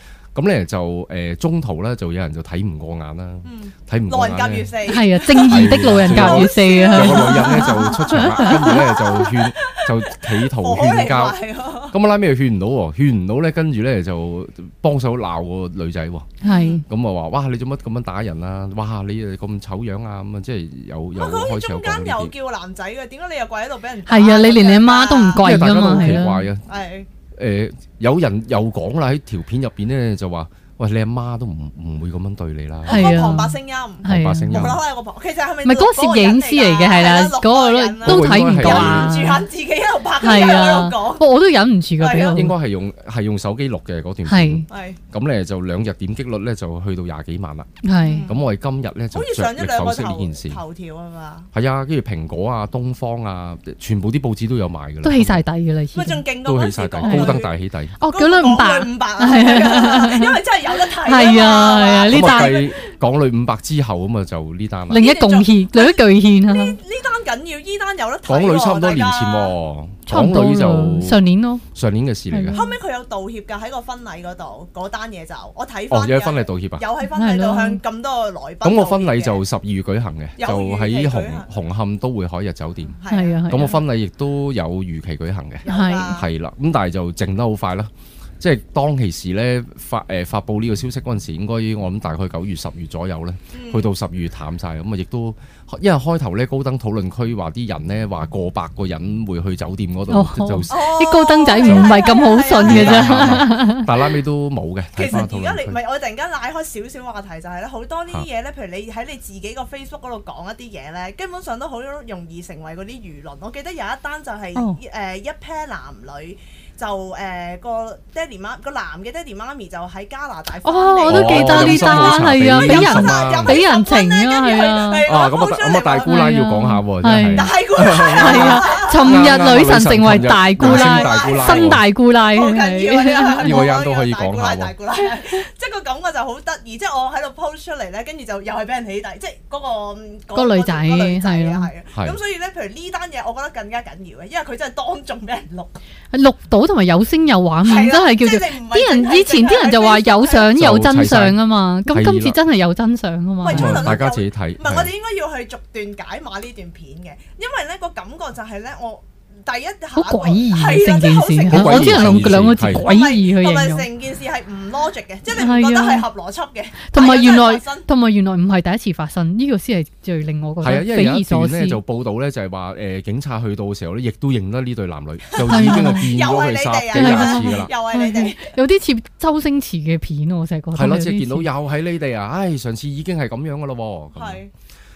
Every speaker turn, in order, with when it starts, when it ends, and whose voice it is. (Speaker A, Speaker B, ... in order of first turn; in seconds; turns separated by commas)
Speaker A: 0.3-4.8, Speaker B: 3.4-11.9, Speaker C: 4.8-9.2, Speaker A: 5.3-11.4, Speaker A: 11.9-16.3, Speaker C: 16.4-16.8, Speaker B: 16.4-16.8, Speaker A: 16.9-22.3, Speaker B: 21.1-27.1, Speaker C: 24.1-26.5, Speaker A: 25.4-26.6, Speaker A: 27.3-33.3, Speaker B: 32.9-41.3, Speaker C: 32.9-34.7, Speaker A: 34.0-34.8, Speaker C: 35.6-39.5, Speaker A: 38.0-39.2, Speaker C: 40.2-42.5, Speaker B: 42.0-42.5, Speaker A: 42.3-47.7, Speaker C: 44.2-44.6, Speaker B: 44.7-45.0, Speaker C: 47.8-48.2, Speaker B: 48.0-48.5, Speaker A: 48.2-50.6, Speaker B: 49.1-51.5, Speaker A: 51.5-55.4, Speaker C: 55.0-56.3, Speaker B: 55.9-57.5, Speaker A: 56.4-58.0, Speaker C: 57.0-57.4, Speaker C: 58.0-60.4, Speaker B: 58.1-62.7, Speaker C: 61.0-62.6, Speaker A: 62.1-65.0, Speaker C: 64.9-66.8, Speaker B: 64.9-69.6, Speaker A: 68.3-71.2, Speaker C: 70.0-71.6, Speaker A: 71.7-72.5, Speaker C: 72.3-72.7, Speaker B: 72.5-79.4, Speaker A: 75.9-76.8, Speaker C: 77.0-77.8, Speaker A: 78.6-83.0, Speaker B: 80.4-81.5, Speaker B: 83.0-83.4, Speaker C: 83.1-83.8, Speaker A: 83.5-100.8, Speaker B: 85.6-86.3, Speaker C: 85.7-86.2, Speaker B: 93.5-93.9, Speaker C: 100.1-103.9, Speaker B: 100.7-103.5, Speaker A: 101.6-105.8, Speaker B: 105.0-126.1, Speaker C: 114.5-114.8, Speaker C: 120.6-125.1, Speaker A: 121.1-123.6, Speaker A: 125.0-131.8, Speaker C: 126.0-127.5, Speaker B: 127.3-129.6, Speaker C: 128.1-133.7, Speaker B: 130.6-145.8, Speaker A: 133.4-134.7, Speaker C: 140.3-141.7, Speaker C: 146.1-154.0, Speaker B: 147.6-150.5, Speaker A: 150.5-152.4, Speaker B: 153.4-167.9, Speaker A: 153.4-154.9, Speaker C: 159.9-163.9, Speaker A: 161.5-162.9, Speaker C: 165.3-166.1, Speaker C: 166.9-171.8, Speaker A: 170.6-177.7, Speaker B: 175.3-178.5, Speaker C: 175.4-176.1, Speaker C: 176.9-181.5, Speaker A: 180.7-184.4, Speaker B: 184.1-184.5